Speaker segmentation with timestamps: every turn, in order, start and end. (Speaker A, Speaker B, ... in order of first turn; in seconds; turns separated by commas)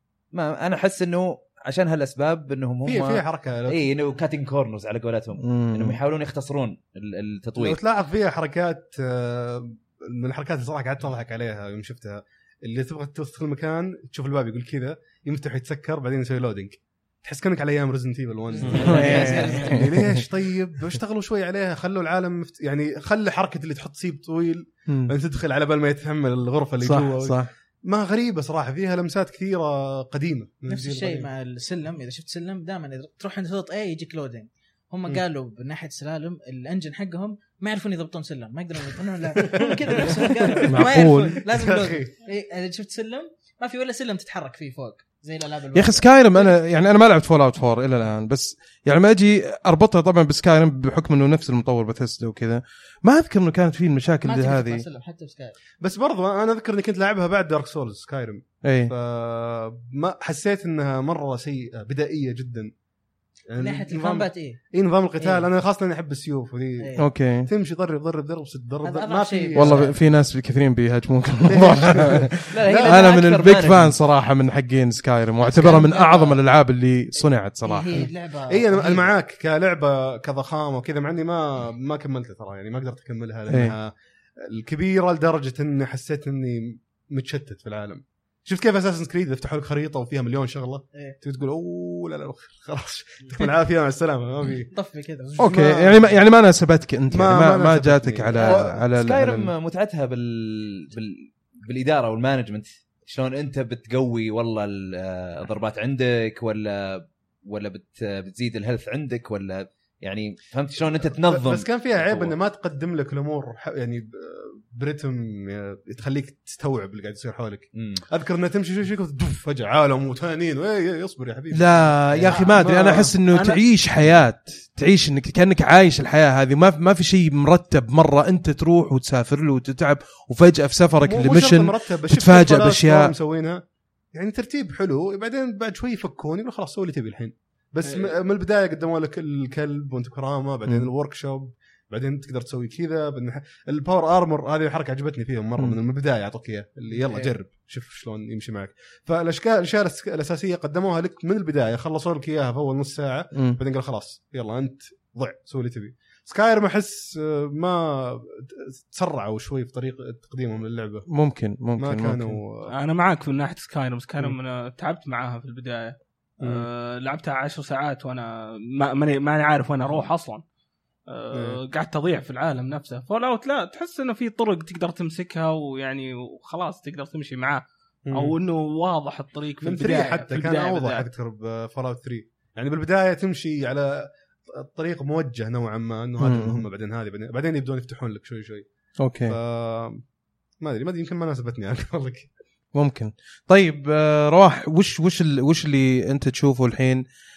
Speaker A: 0.3-7.8, Speaker B: 2.9-3.9, Speaker C: 5.4-6.0, Speaker B: 7.6-31.3, Speaker D: 18.6-19.9, Speaker C: 18.6-20.2, Speaker A: 18.7-19.7, Speaker C: 24.9-25.1, Speaker C: 26.8-27.5, Speaker D: 30.7-46.6, Speaker B: 39.5-40.6, Speaker C: 40.6-41.4, Speaker B: 41.5-42.1, Speaker C: 45.7-54.9, Speaker D: 54.2-55.6, Speaker B: 55.8-62.7, Speaker C: 58.6-58.9, Speaker B: 63.5-69.9, Speaker D: 63.6-64.6, Speaker D: 65.2-65.5, Speaker D: 66.8-67.1, Speaker C: 67.0-67.5, Speaker D: 68.8-70.0, Speaker C: 69.5-78.1, Speaker B: 71.5-73.1, Speaker A: 72.5-74.0, Speaker D: 75.4-76.4, Speaker D: 77.6-79.1, Speaker B: 77.9-94.7, Speaker C: 83.5-83.8, Speaker D: 94.7-95.5, Speaker B: 95.4-96.1, Speaker C: 95.4-99.5, Speaker B: 97.1-98.8, Speaker A: 98.4-112.3, Speaker B: 111.2-123.1, Speaker A: 117.8-118.0, Speaker C: 121.5-133.1, Speaker D: 123.3-123.6, Speaker B: 131.0-161.1, Speaker E: 137.8-138.1, Speaker C: 153.3-153.6, Speaker C: 161.1-162.4, Speaker B: 161.8-162.7, Speaker E: 162.7-170.4, Speaker B: 166.4-166.7, Speaker E: 171.1-181.1, Speaker B: 171.3-171.6, Speaker B: 178.1-178.3, Speaker B: 179.6-188.6, Speaker C: 186.2-186.6, Speaker C: 189.0-189.4, Speaker B: 189.3-190.0, Speaker B: 190.6-192.3, Speaker C: 192.7-197.0